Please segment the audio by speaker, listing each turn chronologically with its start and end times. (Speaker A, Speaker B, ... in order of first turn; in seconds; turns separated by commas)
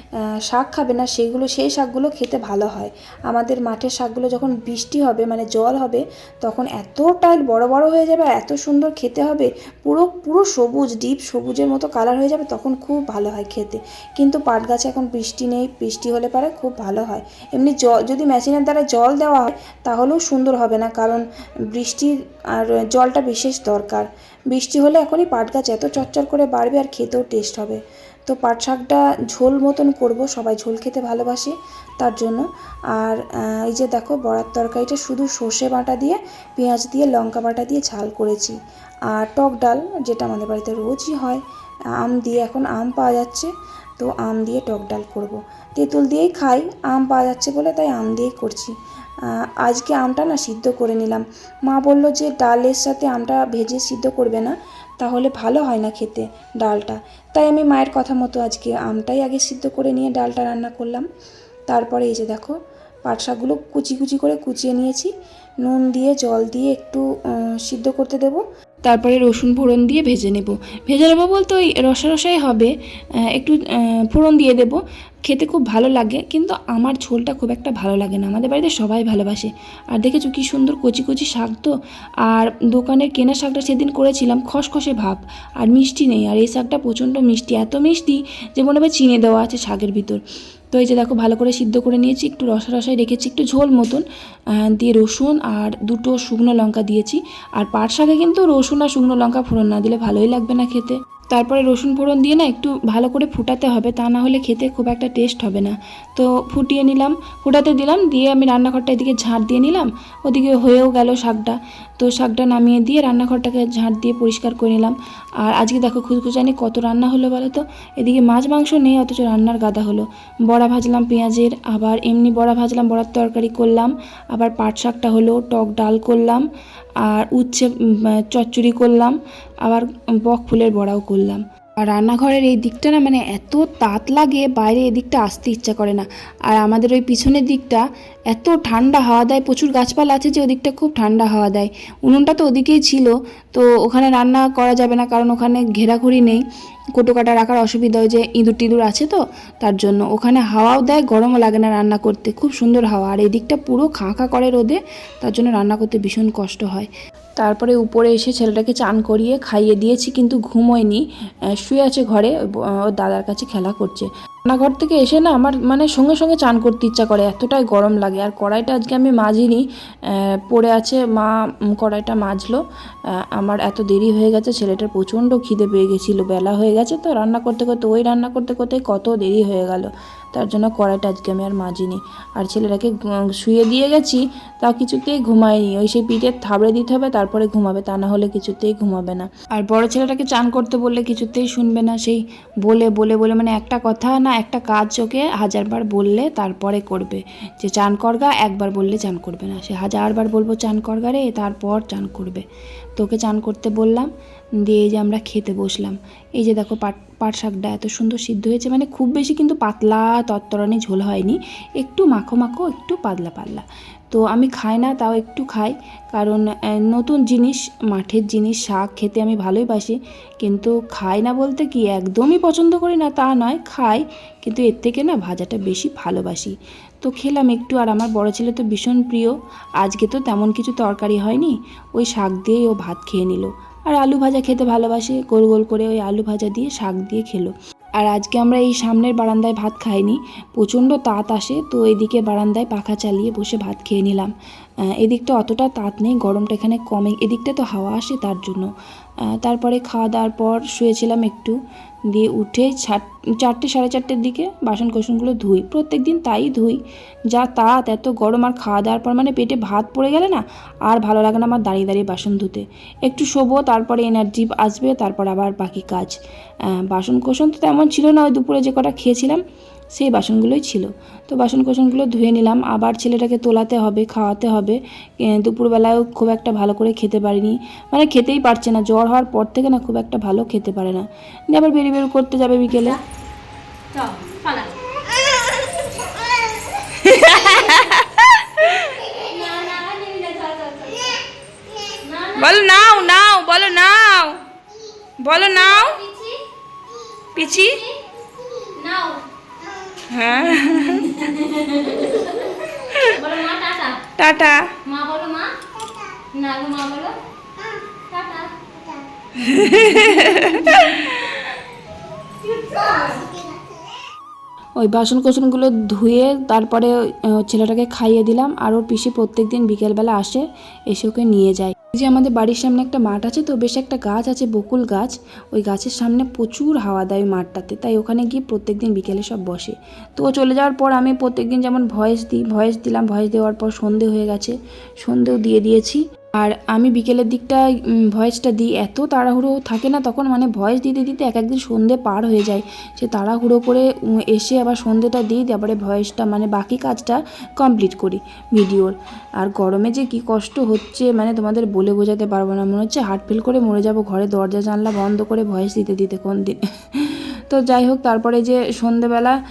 Speaker A: 0.5-32.5, Speaker A: 33.0-38.6, Speaker A: 39.1-41.4, Speaker A: 42.0-48.8, Speaker A: 49.3-61.1, Speaker A: 61.7-65.1, Speaker A: 65.6-67.0, Speaker A: 67.6-72.7, Speaker A: 73.3-73.6, Speaker A: 74.1-81.7, Speaker A: 82.3-90.2, Speaker A: 90.7-94.0, Speaker A: 94.8-126.5, Speaker A: 127.1-146.4, Speaker A: 147.0-161.0, Speaker A: 161.6-162.4, Speaker A: 162.9-169.7, Speaker A: 170.5-172.6, Speaker A: 173.4-202.4, Speaker A: 203.0-204.1, Speaker A: 204.7-244.3, Speaker A: 245.0-248.7, Speaker A: 249.4-251.6, Speaker A: 252.1-256.8, Speaker A: 257.3-266.2, Speaker A: 266.9-269.4, Speaker A: 270.0-283.0, Speaker B: 283.9-284.8, Speaker A: 286.9-288.9, Speaker B: 287.2-287.9, Speaker B: 289.2-291.2, Speaker B: 291.9-292.7, Speaker A: 292.4-294.4, Speaker A: 295.2-296.0, Speaker B: 295.4-296.4, Speaker A: 297.4-297.8, Speaker B: 297.4-298.0, Speaker B: 298.6-299.2, Speaker A: 300.1-301.1, Speaker B: 300.3-304.0, Speaker A: 302.8-303.1, Speaker A: 304.2-304.7, Speaker B: 304.8-305.6, Speaker B: 306.3-307.2, Speaker B: 308.1-309.0, Speaker A: 309.4-311.4, Speaker B: 309.9-311.1, Speaker B: 312.4-313.5, Speaker A: 314.8-359.4